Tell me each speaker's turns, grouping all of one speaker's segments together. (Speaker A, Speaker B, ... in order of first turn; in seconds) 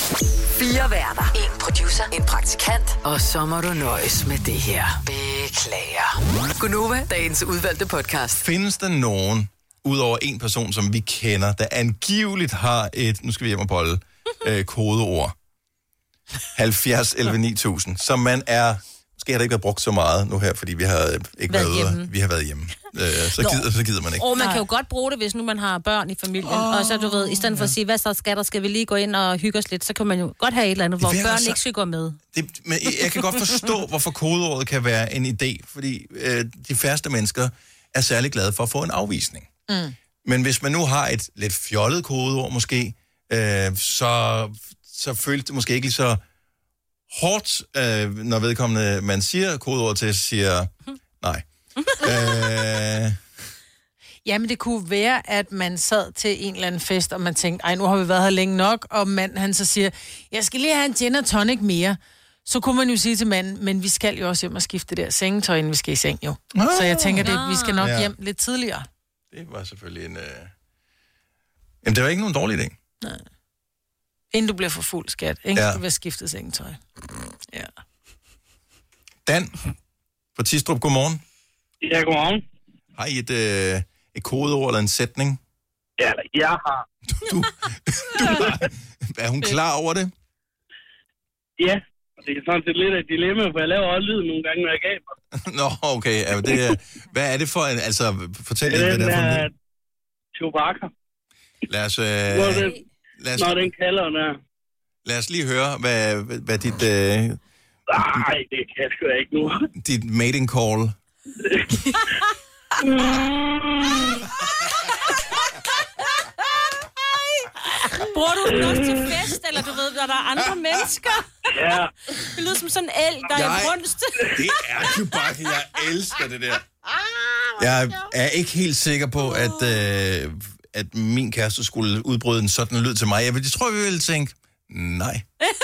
Speaker A: 0.6-8.4
Speaker B: 8.3-15.3, 16.6-24.3, 26.4-27.7, 31.0-31.6, 32.3-39.5, 40.2-46.2, 47.1-53.2, 66.5-68.1, 69.3-70.5, 71.8-72.8, 75.5-75.8, 79.3-79.6, 80.4-81.2, 83.0-85.4, 87.1-90.1, 95.4-99.5, 101.7-103.7, 105.0-107.4, 109.8-111.0, 123.3-123.8, 124.3-126.6, 127.6-135.2
Speaker C: 21.5-22.1, 23.4-23.7, 24.2-32.2, 67.2-67.8, 117.9-121.3, 122.2-124.4
Speaker D: 39.7-39.9, 54.2-68.9, 74.3-76.8
Speaker E: 81.8-82.4, 86.0-86.8, 91.6-95.1, 98.7-99.5, 100.3-100.9, 102.3-102.8, 103.4-104.4, 107.9-109.7, 111.4-111.7, 112.8-114.2, 121.5-121.9